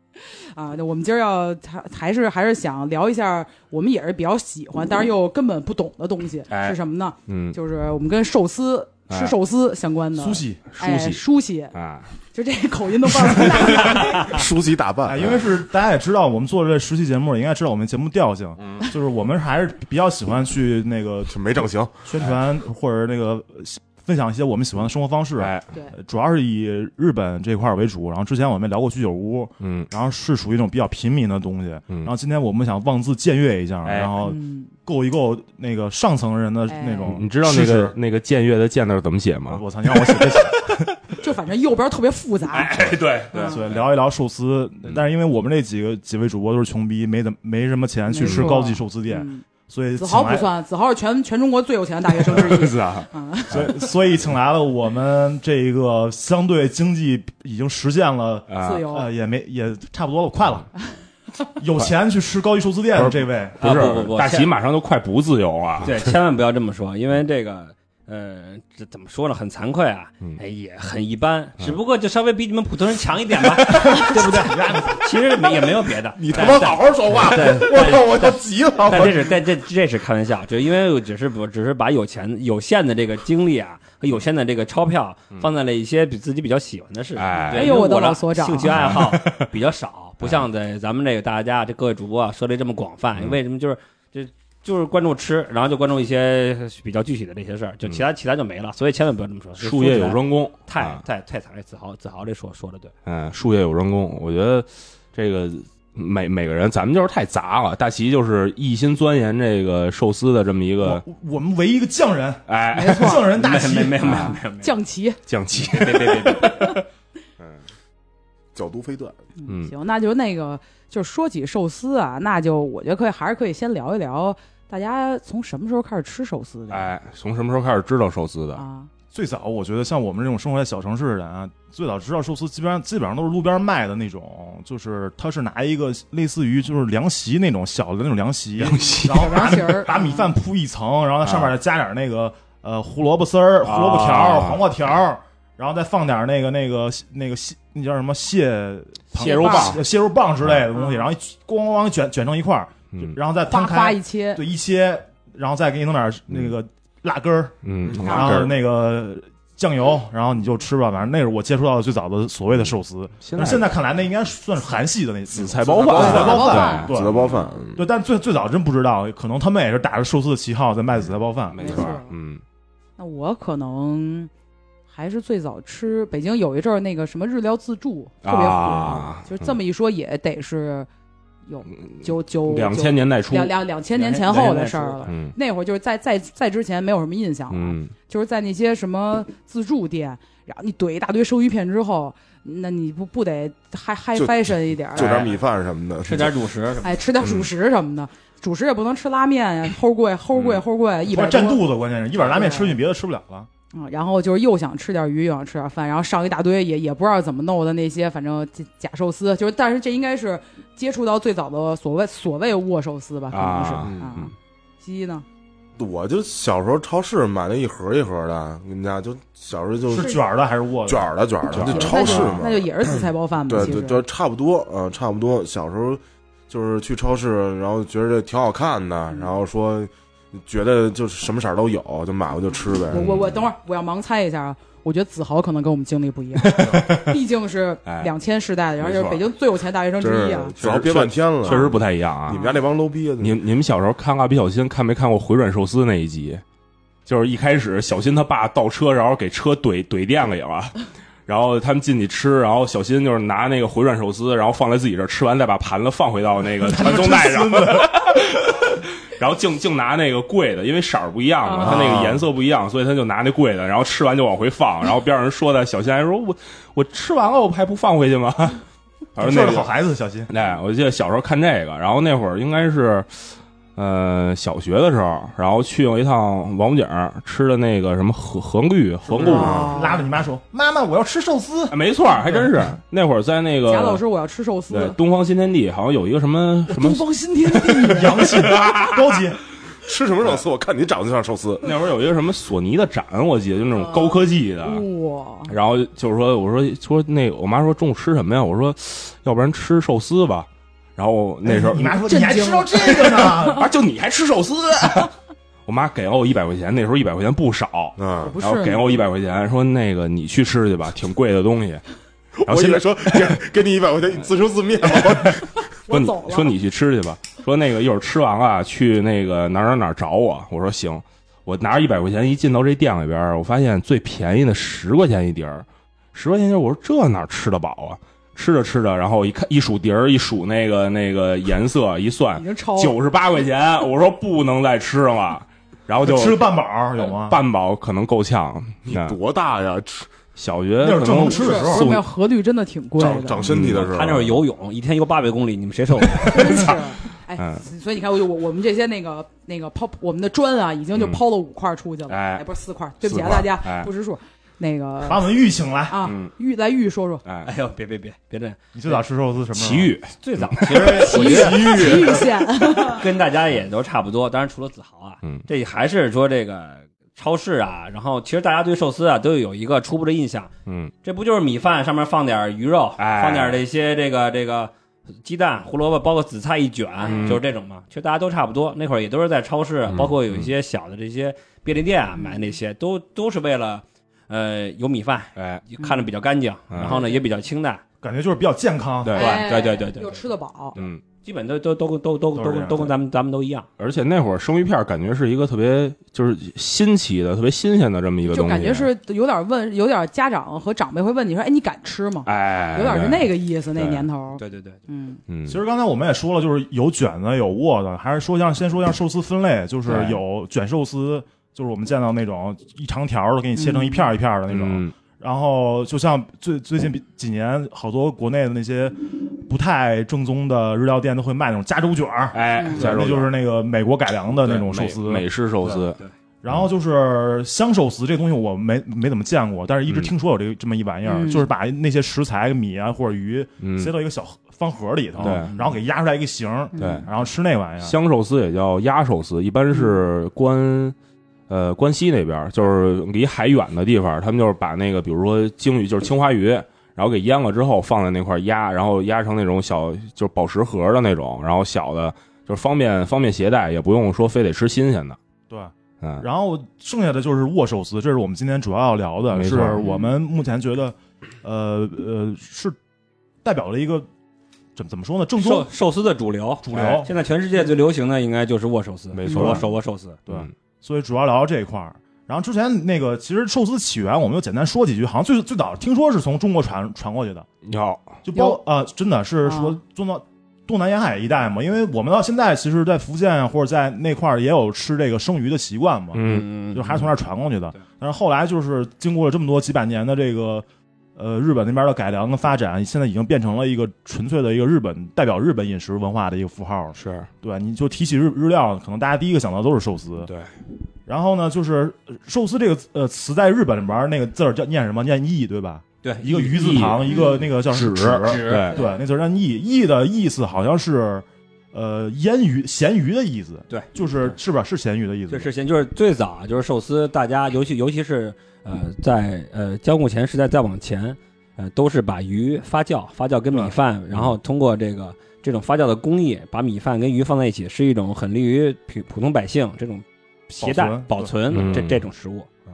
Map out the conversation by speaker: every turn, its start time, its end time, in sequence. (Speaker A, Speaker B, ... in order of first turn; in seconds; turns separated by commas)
Speaker A: 0.2-11.8, Speaker B: 6.5-7.6, Speaker B: 9.1-9.3, Speaker C: 10.2-10.6, Speaker B: 10.7-11.2, Speaker B: 11.7-12.1, Speaker A: 12.3-14.4, Speaker B: 13.1-14.1, Speaker D: 14.2-15.2, Speaker C: 15.1-38.0, Speaker B: 15.2-15.4, Speaker D: 21.3-21.9, Speaker B: 25.4-25.7, Speaker B: 29.6-29.9, Speaker B: 33.8-34.1, Speaker A: 34.2-34.7, Speaker A: 36.7-37.2, Speaker B: 37.0-40.5, Speaker C: 39.5-41.0, Speaker A: 41.2-43.6, Speaker B: 42.5-43.8, Speaker C: 43.5-50.5, Speaker A: 48.1-49.4, Speaker A: 50.0-53.9, Speaker B: 52.1-53.7, Speaker C: 53.5-60.7, Speaker B: 58.5-58.9, Speaker A: 58.5-59.1, Speaker C: 61.6-63.6, Speaker B: 63.0-66.1, Speaker E: 63.6-64.5, Speaker E: 65.8-102.9, Speaker C: 73.7-75.1, Speaker D: 76.2-79.3, Speaker B: 87.2-87.8, Speaker A: 87.5-89.0, Speaker B: 88.7-89.5, Speaker B: 99.6-101.0, Speaker B: 103.1-111.0, Speaker C: 110.8-114.3, Speaker B: 112.5-113.2, Speaker A: 112.7-113.3, Speaker E: 113.3-114.8, Speaker A: 114.0-115.2, Speaker B: 115.3-116.8, Speaker E: 115.6-116.7, Speaker A: 116.5-116.8, Speaker D: 118.5-119.2, Speaker A: 119.4-126.9, Speaker B: 119.5-119.7, Speaker B: 126.7-128.6, Speaker A: 128.6-128.9, Speaker C: 129.1-171.7, Speaker B: 138.6-139.7, Speaker A: 139.0-140.3, Speaker B: 141.2-141.5, Speaker B: 143.6-144.6, Speaker B: 149.1-149.8, Speaker A: 149.2-149.8, Speaker A: 150.7-151.1, Speaker A: 153.5-154.4, Speaker B: 157.7-158.5, Speaker D: 157.9-158.4, Speaker A: 158.1-158.4, Speaker B: 163.2-163.7, Speaker B: 165.3-167.0, Speaker D: 165.7-167.8, Speaker A: 165.8-167.5, Speaker B: 171.5-172.4, Speaker A: 171.6-172.1, Speaker A: 173.0-174.3, Speaker A: 174.9-180.9, Speaker B: 178.2-179.6, Speaker A: 181.4-195.3, Speaker B: 181.7-183.6, Speaker E: 183.9-185.1, Speaker B: 185.1-185.3, Speaker B: 187.5-187.9, Speaker D: 194.9-196.4, Speaker B: 195.0-195.3, Speaker E: 196.0-196.9, Speaker A: 196.8-201.6, Speaker B: 197.2-197.5, Speaker C: 201.1-203.5, Speaker A: 202.2-202.8, Speaker A: 203.7-215.2, Speaker B: 213.3-214.3, Speaker D: 213.8-214.1, Speaker D: 215.8-220.2, Speaker C: 219.9-221.1, Speaker A: 219.9-220.2, Speaker D: 220.9-233.2, Speaker B: 221.5-222.4, Speaker A: 221.6-224.0, Speaker A: 232.9-240.5, Speaker B: 236.3-237.2, Speaker B: 237.8-238.1, Speaker B: 238.8-239.2, Speaker D: 240.0-243.4, Speaker B: 240.6-242.4, Speaker A: 241.4-242.6, Speaker B: 243.2-246.4, Speaker B: 247.1-268.6, Speaker C: 256.6-258.0, Speaker A: 261.4-261.8, Speaker D: 261.6-262.2, Speaker C: 261.7-262.2, Speaker B: 269.1-269.7, Speaker C: 269.2-270.3, Speaker B: 270.3-279.6, Speaker C: 279.1-281.8, Speaker D: 279.2-279.7, Speaker A: 279.2-280.1, Speaker B: 281.7-284.0, Speaker A: 283.6-285.0, Speaker B: 284.7-287.0, Speaker C: 286.7-289.4, Speaker A: 286.8-288.1, Speaker B: 287.7-289.3, Speaker D: 289.8-291.7, Speaker B: 291.6-294.9, Speaker A: 293.7-295.6, Speaker B: 295.5-302.0, Speaker C: 301.4-303.7, Speaker A: 302.0-303.6, Speaker B: 302.9-305.1, Speaker B: 305.7-311.8, Speaker D: 308.0-308.3, Speaker A: 308.2-308.8, Speaker D: 312.4-315.6, Speaker B: 312.5-313.4, Speaker B: 315.0-315.3, Speaker A: 315.9-316.5, Speaker B: 315.9-336.4, Speaker A: 332.3-333.0, Speaker C: 336.0-337.4, Speaker B: 337.1-339.2, Speaker D: 338.9-340.1, Speaker B: 340.4-342.1, Speaker C: 340.8-342.0, Speaker A: 341.3-343.4, Speaker D: 343.0-344.3, Speaker B: 343.3-344.3, Speaker E: 343.7-346.7, Speaker B: 346.1-346.8, Speaker A: 346.2-355.2, Speaker B: 347.4-347.6, Speaker B: 350.9-351.2, Speaker B: 352.1-352.4, Speaker B: 353.0-353.9, Speaker C: 355.1-356.1, Speaker A: 355.9-357.2, Speaker B: 356.0-356.3, Speaker E: 357.4-359.0, Speaker C: 358.7-360.0, Speaker B: 359.5-361.1, Speaker E: 360.2-362.1, Speaker D: 360.7-362.5, Speaker A: 360.8-363.1, Speaker E: 362.9-370.5, Speaker B: 370.7-370.9, Speaker E: 371.0-374.7, Speaker B: 373.0-373.6, Speaker E: 375.2-387.8, Speaker A: 377.0-377.4, Speaker B: 377.0-377.4, Speaker B: 379.9-380.5, Speaker A: 382.2-382.5, Speaker B: 385.4-385.6, Speaker A: 385.8-386.1, Speaker B: 386.7-387.0, Speaker A: 386.8-387.2, Speaker C: 388.0-389.2, Speaker B: 389.0-389.4, Speaker A: 389.1-390.8, Speaker E: 389.2-390.1, Speaker B: 390.8-391.0, Speaker E: 391.2-393.7, Speaker C: 392.3-392.9, Speaker B: 393.8-398.9, Speaker A: 398.3-405.2, Speaker B: 402.3-404.1, Speaker E: 404.4-404.8, Speaker B: 405.3-405.6, Speaker C: 405.5-425.8, Speaker B: 409.9-410.2, Speaker A: 413.6-414.1, Speaker B: 414.5-414.9, Speaker B: 422.3-423.3, Speaker A: 422.6-422.9, Speaker B: 424.4-426.0, Speaker E: 425.8-426.1, Speaker C: 426.4-437.9, Speaker A: 431.1-431.5, Speaker B: 433.6-433.9, Speaker B: 435.2-435.5, Speaker E: 435.2-435.7, Speaker A: 436.7-437.1, Speaker B: 436.8-437.1, Speaker B: 437.8-440.9, Speaker B: 441.5-455.2, Speaker C: 455.5-462.8, Speaker B: 459.3-459.8, Speaker A: 459.8-460.1, Speaker C: 463.4-464.1, Speaker C: 464.8-465.7, Speaker E: 465.4-470.2, Speaker C: 466.6-467.1, Speaker B: 469.1-469.6, Speaker A: 469.3-469.6, Speaker C: 470.3-477.5, Speaker B: 477.6-478.2, Speaker C: 478.2-490.6, Speaker A: 478.3-478.6, Speaker A: 479.4-479.8, Speaker B: 486.1-486.5, Speaker E: 486.2-487.1, Speaker C: 491.2-500.3, Speaker B: 500.2-500.5, Speaker C: 501.1-515.5, Speaker E: 506.0-506.5, Speaker B: 506.3-508.8, Speaker A: 507.1-507.5, Speaker E: 508.2-508.7, Speaker A: 508.7-509.0, Speaker E: 515.3-532.5, Speaker C: 530.6-531.4, Speaker B: 531.5-532.0